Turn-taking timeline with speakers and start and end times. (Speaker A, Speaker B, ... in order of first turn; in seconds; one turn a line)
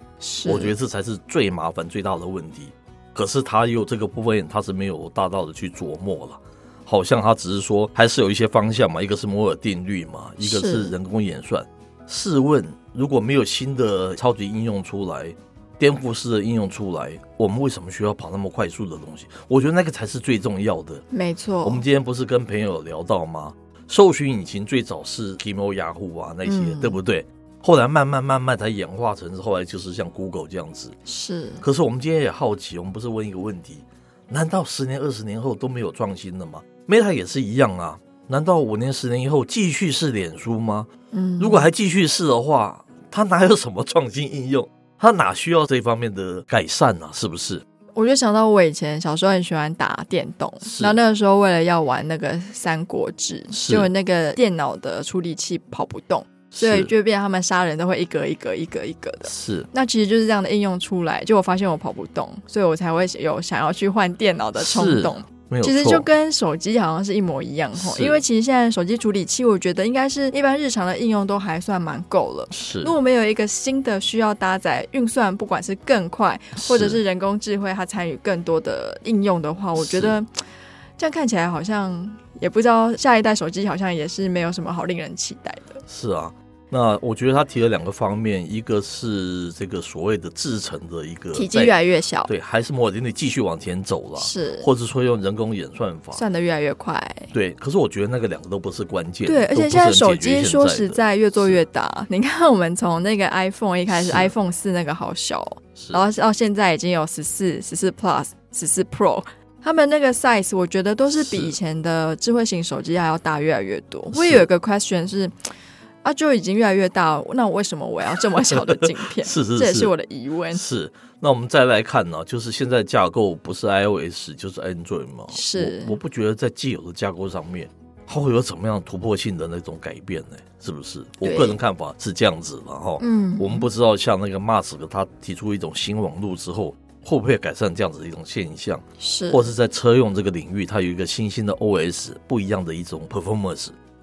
Speaker A: 0.2-0.7
Speaker B: 0.4-21.0
Speaker A: 10.4-10.9
Speaker A: 21.1-21.8
Speaker B: 21.6-30.9
Speaker A: 26.4-27.0
Speaker A: 31.0-31.6
Speaker B: 31.6-47.6
Speaker A: 41.1-41.7
Speaker A: 47.9-80.4
Speaker B: 50.6-51.0
Speaker B: 53.5-53.9
Speaker B: 56.5-56.9
Speaker B: 59.2-59.7
Speaker B: 64.5-66.1
Speaker B: 67.7-68.2
Speaker B: 72.5-72.9
Speaker B: 76.5-77.0
Speaker B: 79.8-80.2
Speaker A: 81.0-85.8
Speaker B: 85.9-91.7
Speaker A: 91.3-92.3
Speaker B: 92.3-96.2
Speaker A: 94.2-94.7
Speaker A: 96.1-97.3
Speaker B: 97.3-101.6
Speaker A: 99.2-115.5
Speaker B: 103.9-104.3
Speaker B: 105.8-106.0
Speaker B: 111.1-111.5
Speaker B: 114.1-114.5
Speaker A: 116.0-120.6
Speaker B: 118.3-119.9
Speaker B: 120.5-143.7
Speaker A: 125.3-126.0
Speaker A: 131.2-131.6
Speaker A: 133.0-133.7
Speaker A: 139.0-139.5